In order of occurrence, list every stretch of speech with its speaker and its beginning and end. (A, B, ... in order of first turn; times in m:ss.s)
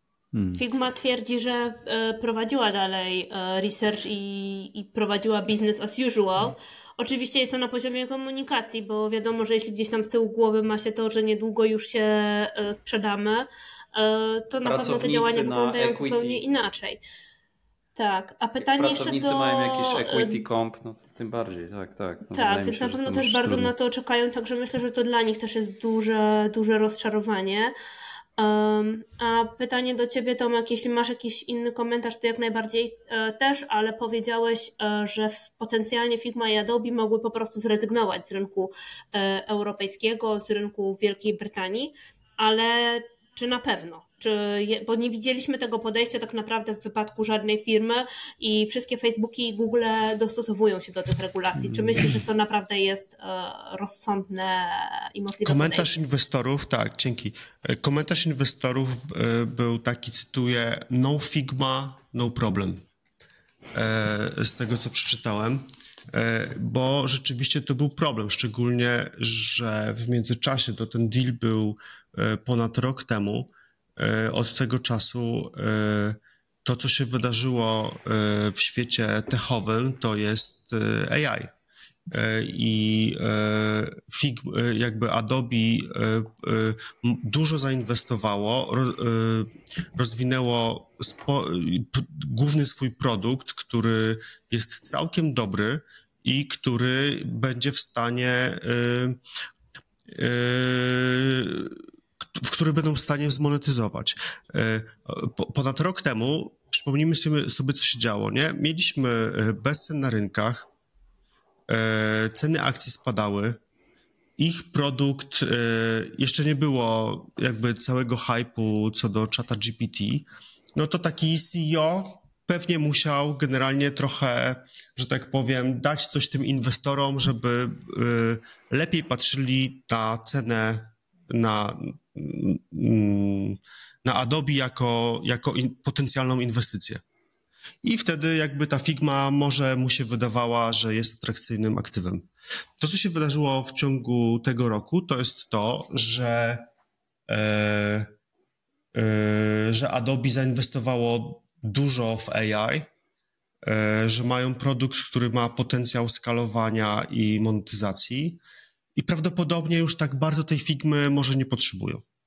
0:00.3-0:00.6 A
0:00.6-0:17.0 B
0:14.6-0:16.4 A
0:18.0-0:20.4 B
0:18.6-0:23.7 A
0:22.3-0:27.7 B
0:28.4-0:55.9 B
0:51.7-0:52.1 A
0:55.4-1:02.8 C
1:03.7-1:21.5 C
1:22.1-1:39.2 C
1:40.1-1:50.7 C
1:51.7-1:53.6 C
1:54.4-2:17.0 C
2:17.8-2:26.7 C
2:27.3-2:28.1 C
2:28.9-2:32.9 C
2:33.6-2:38.4 C
2:39.0-2:42.0 C